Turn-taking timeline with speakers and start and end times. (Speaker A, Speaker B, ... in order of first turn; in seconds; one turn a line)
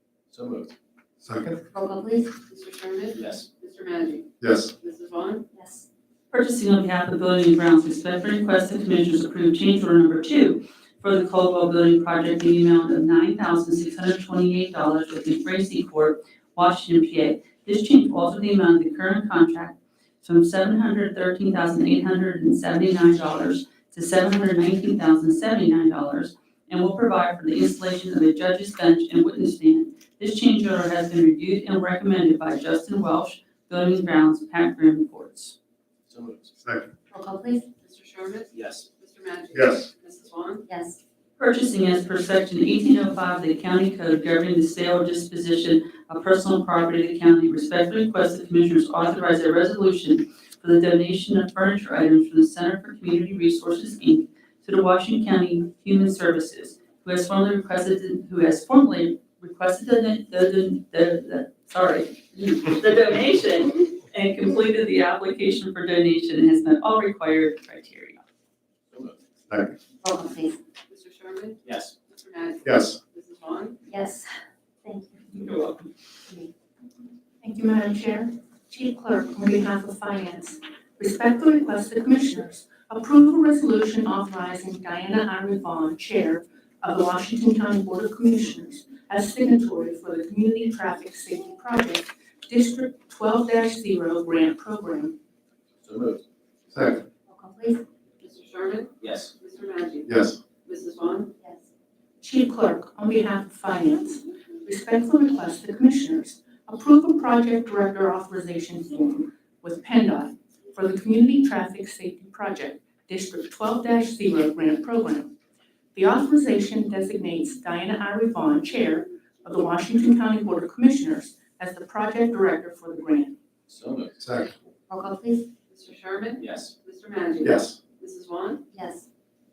Speaker A: 0.3-0.7
Speaker B: 1.2-1.6
Speaker C: 1.7-2.3
Speaker D: 2.5-4.3
Speaker A: 3.1-3.5
Speaker B: 4.4-4.7
Speaker D: 4.8-5.5
Speaker C: 5.5-5.8
Speaker E: 6.3-35.6
Speaker A: 36.1-36.5
Speaker B: 36.6-36.9
Speaker C: 37.1-37.7
Speaker D: 37.8-40.7
Speaker A: 38.5-38.9
Speaker B: 39.5-39.9
Speaker C: 40.7-41.0
Speaker E: 41.4-68.2
Speaker A: 68.9-69.2
Speaker B: 69.5-69.8
Speaker C: 70.0-70.6
Speaker D: 70.9-73.8
Speaker A: 71.7-71.9
Speaker B: 72.7-73.0
Speaker C: 73.9-74.3
Speaker C: 74.8-75.2
Speaker E: 75.3-75.9
Speaker F: 77.4-95.2
Speaker A: 95.8-96.2
Speaker B: 96.7-97.1
Speaker C: 97.3-97.8
Speaker D: 98.2-100.1
Speaker A: 99.0-99.3
Speaker B: 100.1-100.4
Speaker D: 100.6-101.3
Speaker C: 101.4-101.7
Speaker F: 102.2-115.3
Speaker F: 116.0-123.4
Speaker A: 123.7-124.2
Speaker B: 124.2-124.6
Speaker C: 124.9-125.5
Speaker D: 125.7-128.6
Speaker A: 126.4-126.7
Speaker B: 127.4-127.8
Speaker C: 128.7-129.1